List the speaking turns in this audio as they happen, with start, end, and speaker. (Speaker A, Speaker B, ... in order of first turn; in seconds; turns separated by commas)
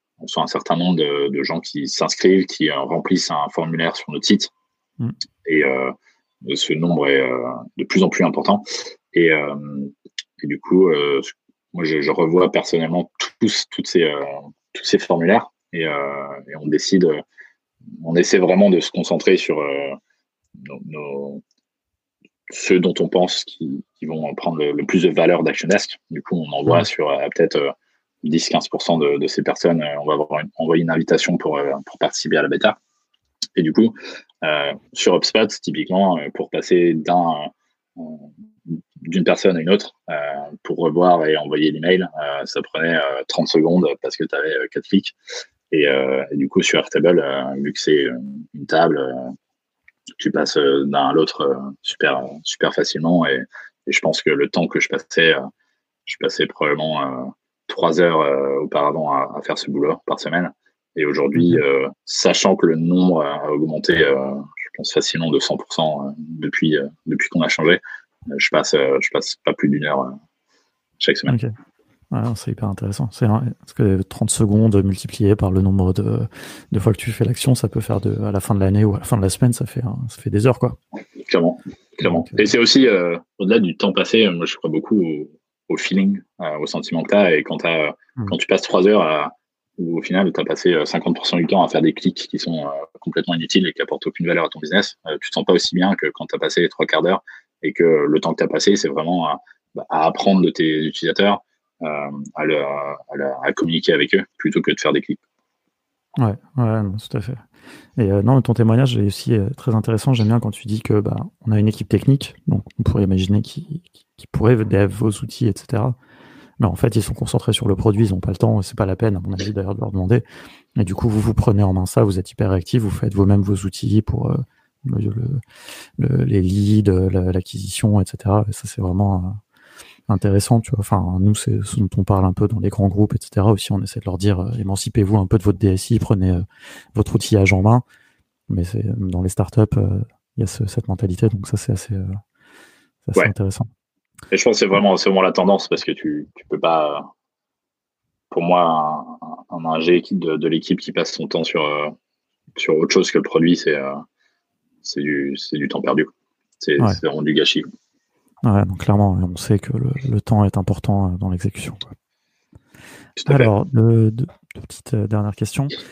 Speaker A: 0.2-4.5, Speaker A: 5.4-17.2, Speaker A: 18.0-20.0, Speaker A: 20.6-21.4, Speaker A: 22.5-27.7, Speaker A: 28.2-32.8, Speaker A: 33.5-45.1, Speaker A: 45.7-49.3, Speaker A: 50.2-55.4, Speaker A: 56.0-70.1, Speaker B: 61.4-61.6, Speaker A: 71.0-71.3, Speaker B: 72.1-80.8, Speaker A: 81.2-105.2, Speaker B: 82.0-82.4, Speaker B: 106.2-107.4, Speaker B: 108.0-116.0, Speaker B: 116.6-120.2, Speaker B: 120.8-125.4, Speaker B: 126.0-129.4, Speaker B: 130.1-137.8, Speaker B: 138.5-142.2, Speaker B: 143.1-143.7, Speaker A: 144.3-147.0, Speaker A: 148.3-151.9, Speaker A: 152.6-154.0, Speaker A: 154.8-156.1, Speaker A: 156.6-157.7, Speaker B: 158.4-161.9, Speaker A: 163.2-163.5, Speaker B: 163.2-165.8